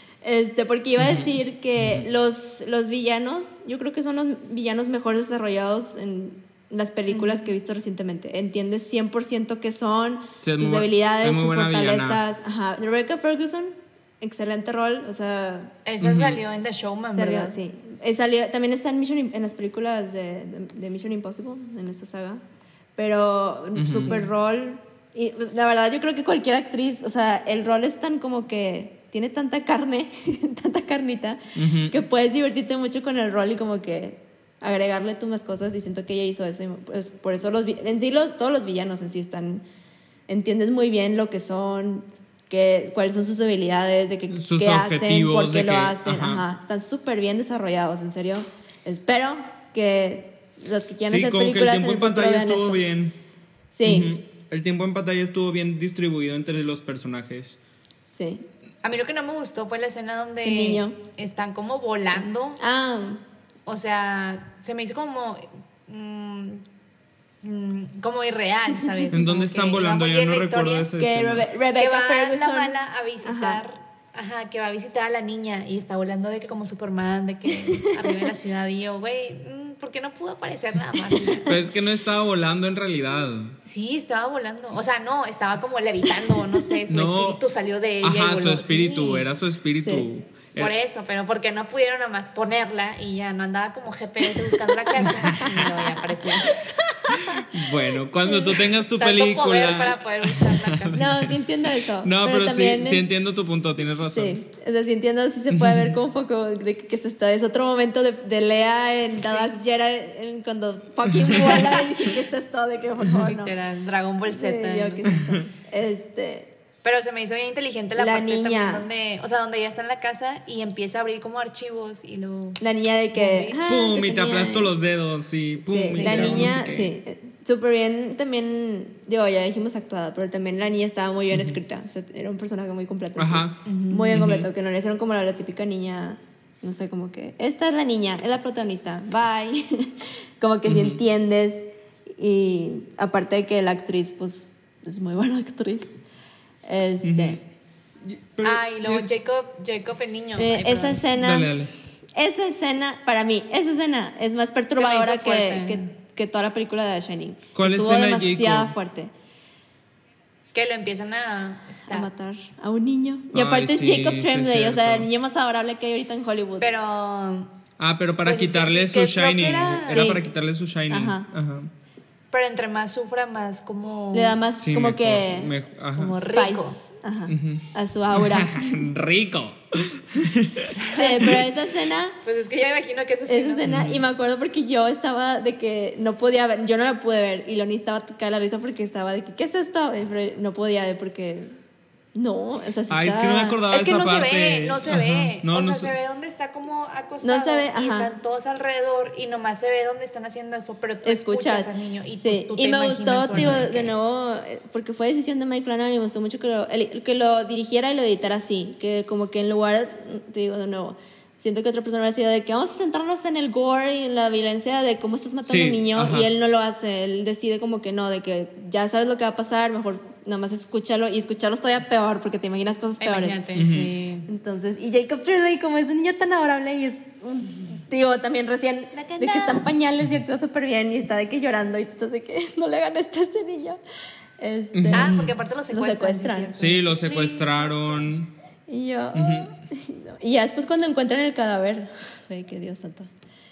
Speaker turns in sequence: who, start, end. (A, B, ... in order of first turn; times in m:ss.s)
0:00.2-0:15.7 A
0:01.0-0:01.3 B
0:07.1-0:07.5 C
0:10.4-0:12.2 B
0:15.8-0:17.6 C
0:16.0-0:16.4 B
0:17.1-0:22.4 A
0:23.0-0:39.6 A
0:23.8-0:24.1 B
0:23.9-0:24.3 C
0:31.6-0:32.0 B
0:40.3-0:52.8 A
0:44.3-0:46.4 B
0:51.0-0:53.2 B
0:53.7-0:54.1 A
0:53.8-0:57.6 B
0:58.1-0:58.4 A
0:58.8-1:02.6 C
1:00.4-1:01.0 A
1:02.6-1:03.2 A
1:03.6-1:06.6 C
1:07.4-1:10.9 C
1:08.8-1:09.1 A
1:09.1-1:11.5 B
1:11.0-1:13.6 A
1:11.8-1:21.6 C
1:17.7-1:18.2 A
1:21.1-1:21.4 A
1:21.5-1:23.6 B
1:23.6-1:29.3 C
1:26.9-1:27.4 B
1:28.0-1:30.7 B
1:29.7-1:30.1 A
1:30.5-1:36.6 C
1:35.0-1:35.9 B
1:37.1-1:37.4 A
1:37.1-1:41.3 B
1:39.0-1:41.1 C
1:40.9-1:43.1 A
1:42.0-1:44.4 B
1:44.0-1:53.5 A
1:45.5-1:46.0 B
1:49.2-1:49.6 C
1:51.2-1:51.5 B
1:51.5-1:52.2 C
1:53.2-1:55.1 C
1:54.2-1:56.5 A
1:55.2-1:55.5 B
1:56.8-2:02.6 C
1:58.0-1:58.9 A
2:02.6-2:04.7 A
2:03.1-2:03.7 C
2:03.6-2:06.9 B
2:05.6-2:26.0 A
2:06.0-2:06.6 C
2:13.2-2:13.6 B
2:13.6-2:14.2 C
2:14.1-2:14.5 B
2:20.6-2:21.0 B
2:26.6-2:27.4 A
2:27.0-2:27.4 B
2:28.0-2:29.1 B
2:28.4-2:31.0 C
2:30.4-2:31.6 A
2:31.2-2:31.7 B
2:32.1-2:39.1 A
2:34.8-2:35.9 C
2:37.5-2:38.8 B
2:40.5-2:42.1 C
2:41.9-2:46.7 A
2:43.3-2:45.1 B
2:46.6-2:47.5 C
2:47.8-2:51.7 B
2:48.2-2:50.2 C
2:49.9-2:50.2 A
2:50.9-2:51.3 A
2:52.3-2:54.4 C
2:54.1-2:55.5 A
2:54.6-2:56.2 B
2:56.0-2:56.8 C
2:56.1-2:58.9 A
2:57.3-3:00.8 B
3:00.8-3:01.4 C
3:00.9-3:02.2 A
3:02.2-3:03.6 C
3:03.3-3:11.5 A
3:03.6-3:04.0 B
3:12.2-3:13.6 A
3:12.9-3:15.9 B
3:13.7-3:23.9 C
3:17.2-3:18.1 A
3:21.0-3:43.4 A
3:23.3-3:23.6 B
3:35.4-3:36.3 B
3:43.0-3:44.3 C
3:43.5-3:43.9 B
3:44.2-3:53.8 A
3:48.9-3:49.7 C
3:54.4-3:55.2 A
3:54.7-3:55.3 B
3:54.9-3:58.1 C
3:55.7-3:56.8 A
3:56.6-3:58.3 B
3:58.7-4:03.1 A
3:59.1-3:59.5 B